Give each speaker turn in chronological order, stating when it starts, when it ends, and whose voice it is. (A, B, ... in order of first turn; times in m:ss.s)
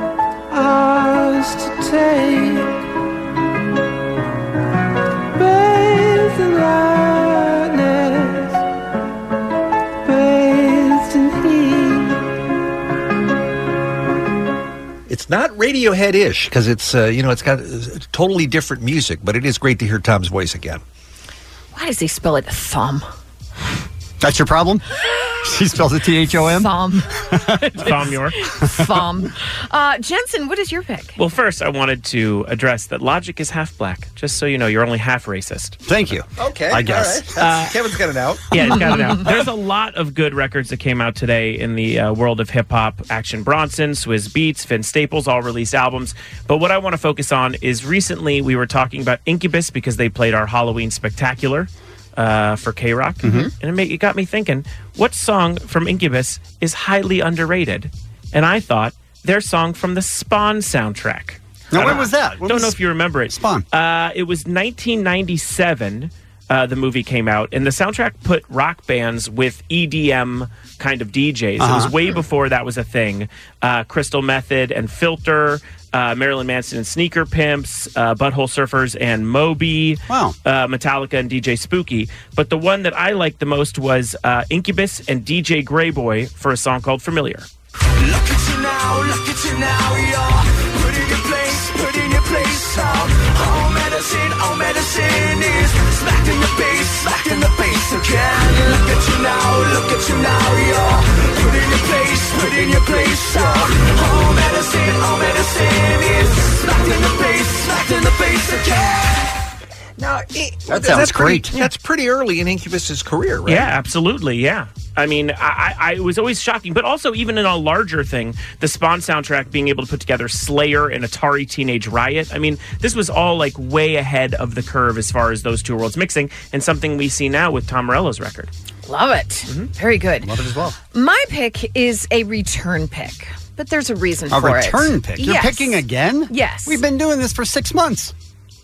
0:15.1-0:20.8 A
0:21.7-0:23.0 B
0:24.2-0:24.8 C
0:25.4-0:26.7 C
0:26.4-0:27.1 B
0:27.3-0:27.9 C
0:27.7-0:28.4 D
0:28.4-0:31.2 B
0:31.2-0:35.8 D
0:35.8-0:37.4 C
0:36.4-0:38.6 A
0:37.4-0:37.7 D
0:38.5-1:27.5 D
0:53.2-0:53.5 C
0:53.2-0:53.5 B
1:01.7-1:02.8 C
1:03.3-1:03.6 C
1:11.6-1:11.9 C
1:20.1-1:20.3 C
1:28.0-1:49.2 E
1:50.0-1:53.7 A
1:50.7-1:51.6 C
1:53.4-2:08.5 D
2:08.8-2:10.3 B
2:10.2-2:10.8 C
2:10.9-2:16.8 B
2:14.3-2:18.1 C